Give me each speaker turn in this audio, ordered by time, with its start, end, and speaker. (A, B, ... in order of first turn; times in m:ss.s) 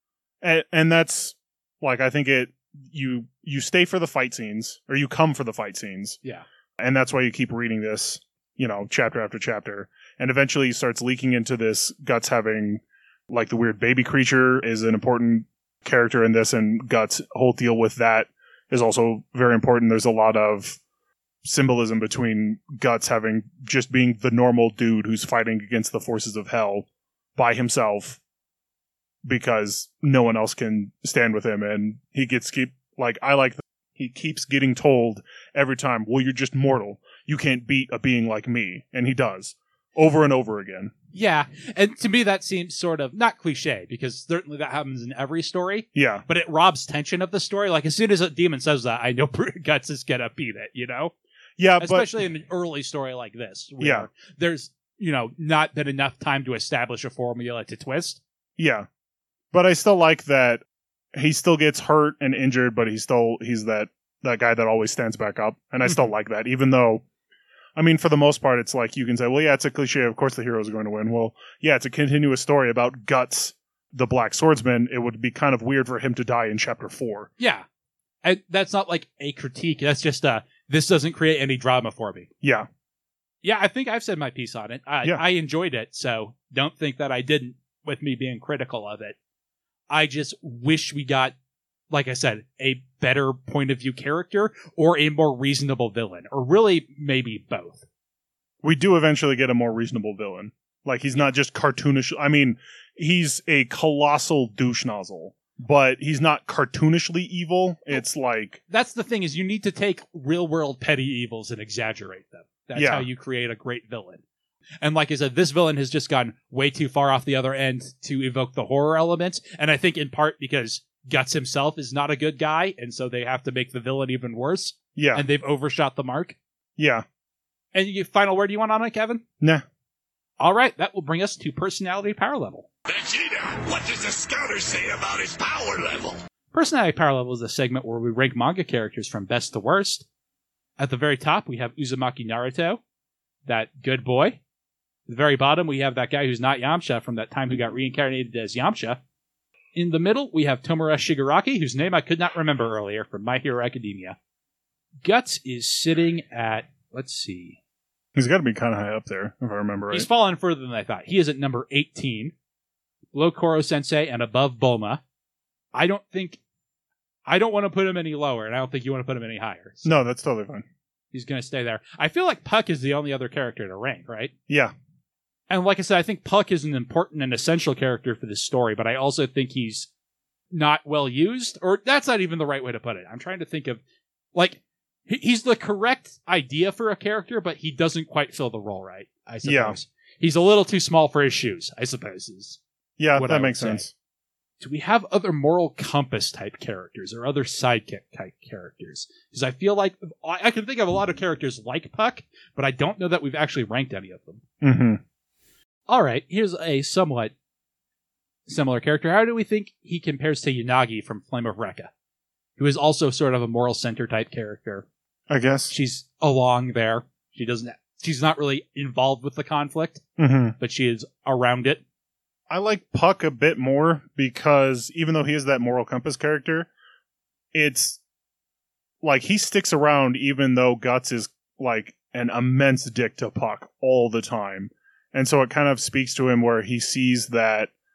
0:00.4-0:06.2 A
0:06.8-0:20.8 A
0:21.4-0:28.2 A
0:29.2-0:40.9 A
0:41.1-0:51.1 B
0:45.9-0:46.2 A
0:51.6-0:52.1 A
0:51.8-0:58.2 B
0:53.8-0:54.1 A
0:58.6-0:58.9 A
0:59.5-1:00.6 A
1:01.1-1:07.0 A
1:07.8-1:17.3 A
1:17.4-1:17.6 B
1:18.2-1:22.3 B
1:22.4-1:22.7 A
1:23.4-1:29.2 B
1:29.9-1:31.3 B
1:31.9-1:37.8 B
1:38.6-1:48.6 A
1:48.7-1:54.2 B
1:52.7-1:53.0 A
1:54.8-2:06.4 B
2:05.0-2:05.2 A
2:06.8-2:07.0 A
2:07.7-2:09.2 B
2:10.4-2:12.7 B
2:12.9-2:16.2 C
2:16.5-2:20.0 B
2:20.8-2:22.8 B
2:23.4-2:24.4 B
2:25.1-2:29.0 B
2:29.7-2:34.2 B
2:35.0-2:37.6 B
2:38.1-2:40.1 A
2:39.9-2:42.3 B
2:43.1-2:45.0 B
2:45.7-2:46.4 B
2:47.2-2:49.9 B
2:49.8-2:50.6 A
2:51.1-2:54.3 B
2:55.5-2:59.9 B
3:00.5-3:03.8 B
3:04.3-3:12.6 B
3:09.4-3:09.8 A
3:13.0-3:13.9 A
3:13.1-3:13.8 B
3:14.6-3:24.4 B
3:24.6-3:25.0 A
3:25.9-3:27.3 B
3:28.5-3:31.9 B
3:32.6-3:34.8 B
3:35.3-3:35.7 A
3:35.7-3:40.0 B
3:40.2-3:40.6 A
3:40.6-3:41.8 B
3:42.5-3:46.7 A
3:47.5-3:48.0 A
3:49.0-3:57.7 A